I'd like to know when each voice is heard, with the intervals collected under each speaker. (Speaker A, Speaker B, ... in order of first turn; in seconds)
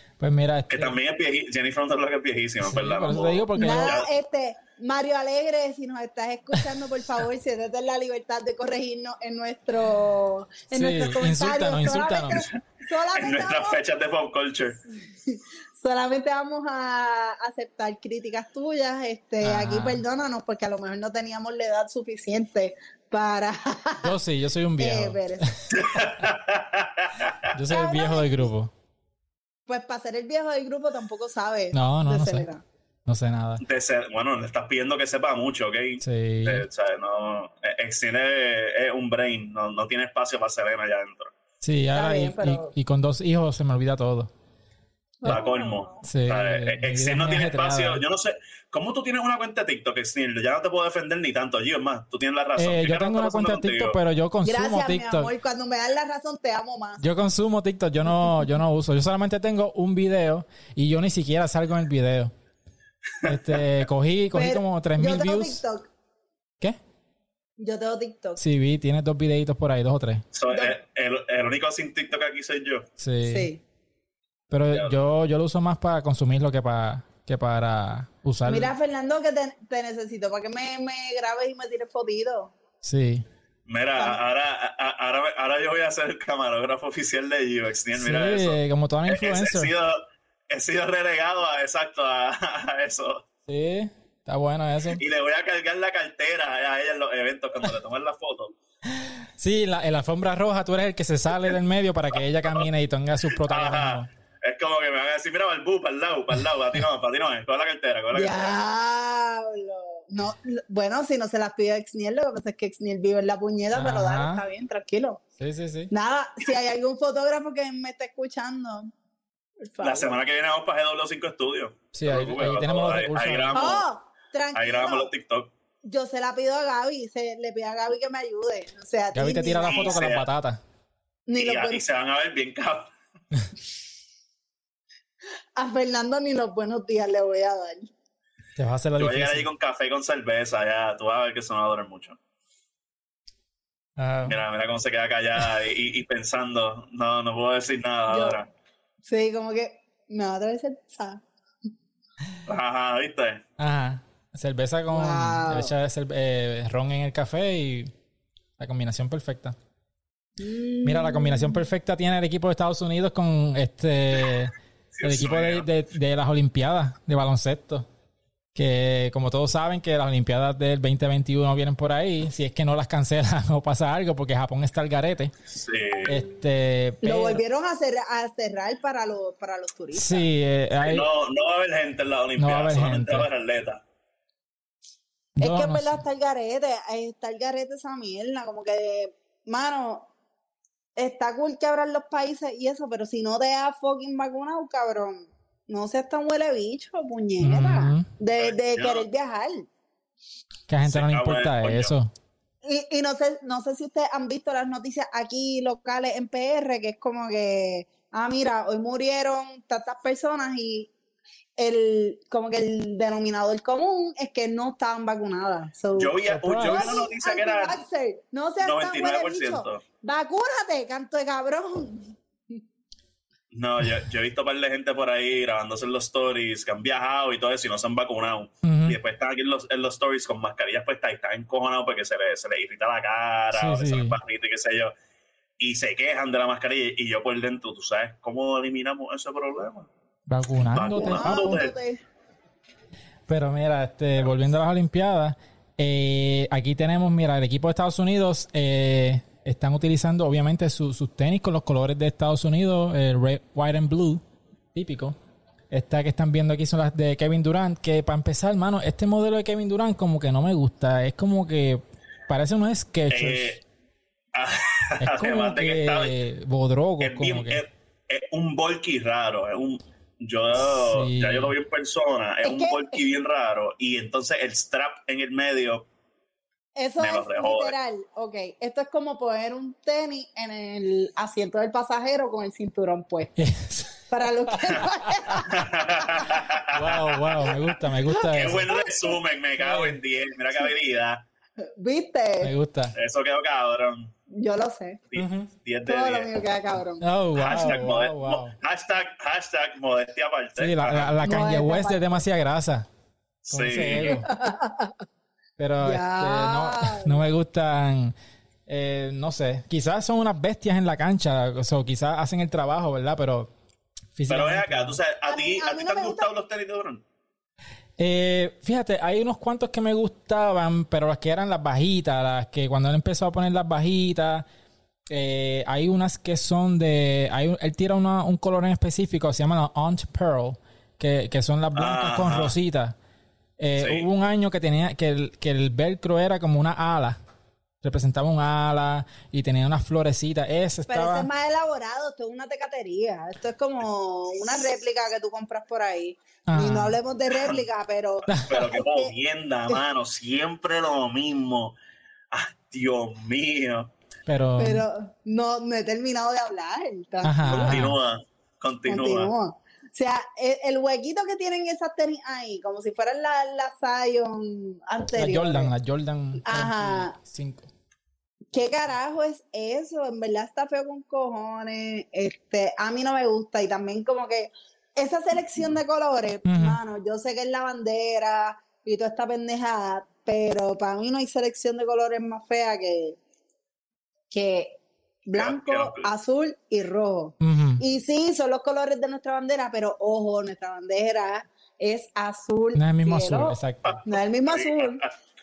Speaker A: 0.2-0.9, 2.6-4.0, 10.7-12.4, 19.4-20.0, 24.0-25.7, 27.5-28.7, 31.7-32.5, 33.0-33.6, 36.0-36.7, 41.6-44.3, 46.0-48.0, 52.6-55.3, 57.0-62.3, 63.2-65.6, 68.4-70.2, 73.0-73.5, 74.5-78.7, 82.8-83.2, 87.9-89.7, 93.5-95.0, 98.8-104.1, 113.7-114.4, 115.4-115.9, 121.9-123.8, 129.1-130.6, 138.6-139.4, 144.0-144.4, 153.6-157.9, 158.6-159.6, 160.8-167.9, 168.5-175.3, 176.0-177.4, 179.9-181.1, 182.4-183.3, 185.4-186.0, 197.4-198.1, 200.7-202.1, 216.2-217.0, 228.6-229.0, 233.5-234.2, 240.3-241.6, 243.3-254.2, 254.7-255.2, 255.7-263.6, 265.0-267.6, 270.6-271.5, 283.4-285.5, 286.6-288.8, 289.6-290.0, 292.4-292.9, 295.1-295.5, 297.0-298.5, 300.6-302.9, 303.5-304.3, 305.6-308.1, 308.7-313.5, 314.1-315.0, 318.0-324.5, 325.1-332.9, 333.6-337.2, 337.8-341.3, 346.5-347.0, 348.3-348.6, 354.2-354.9, 357.2-358.0, 365.1-367.7, 376.4-376.8, 387.4-387.8, 392.7-394.0
Speaker B: 0.7-4.1, 12.3-14.8, 25.7-27.5, 33.6-41.3, 45.2-54.0, 63.2-63.6, 70.3-72.8, 83.7-93.2, 94.9-98.5, 103.4-108.5, 119.8-123.8, 124.5-125.5, 129.7-130.3, 131.4-132.9, 139.0-142.2, 144.3-148.5, 152.4-153.4, 164.9-165.7, 175.5-176.2, 180.8-183.8, 198.4-199.0, 200.8-201.9, 215.9-217.8, 218.6-219.8, 223.5-234.9, 235.6-239.9, 240.7-241.7, 263.1-263.6, 264.3-266.1, 267.0-275.9, 277.0-277.7, 285.5-287.7, 288.3-291.2, 292.9-294.1, 295.1-296.3, 297.3-301.2, 303.5-304.2, 314.3-317.0, 331.7-332.5, 333.8-334.1, 347.3-347.6, 348.4-351.8, 352.3-353.9, 357.5-359.3, 385.3-386.1, 393.8-395.1
Speaker C: 3.5-13.8, 15.0-24.1, 24.8-25.5, 27.7-28.5, 29.7-32.6, 41.9-42.7, 45.2-46.0, 54.4-57.1, 64.3-65.9, 67.6-68.4, 70.5-70.8, 73.2-73.6, 78.5-82.5, 108.1-115.2, 115.9-118.9, 119.6-120.2, 123.5-125.1, 125.8-130.0, 131.3-131.8, 135.6-137.9, 148.1-148.4, 149.1-151.2, 154.9-155.7, 160.4-161.6, 177.0-180.3, 185.4-190.1, 190.9-199.7, 202.6-210.9, 211.6-222.6, 240.9-242.0, 272.4-273.0, 276.8-283.4, 284.1-286.2, 288.3-289.1, 291.8-292.5, 294.3-295.0, 295.9-297.1, 301.2-302.2, 304.2-304.9, 305.8-307.2, 315.2-316.3, 340.9-349.1, 354.6-357.8, 358.9-365.7, 366.4-367.2, 368.5-383.2, 384.3-395.0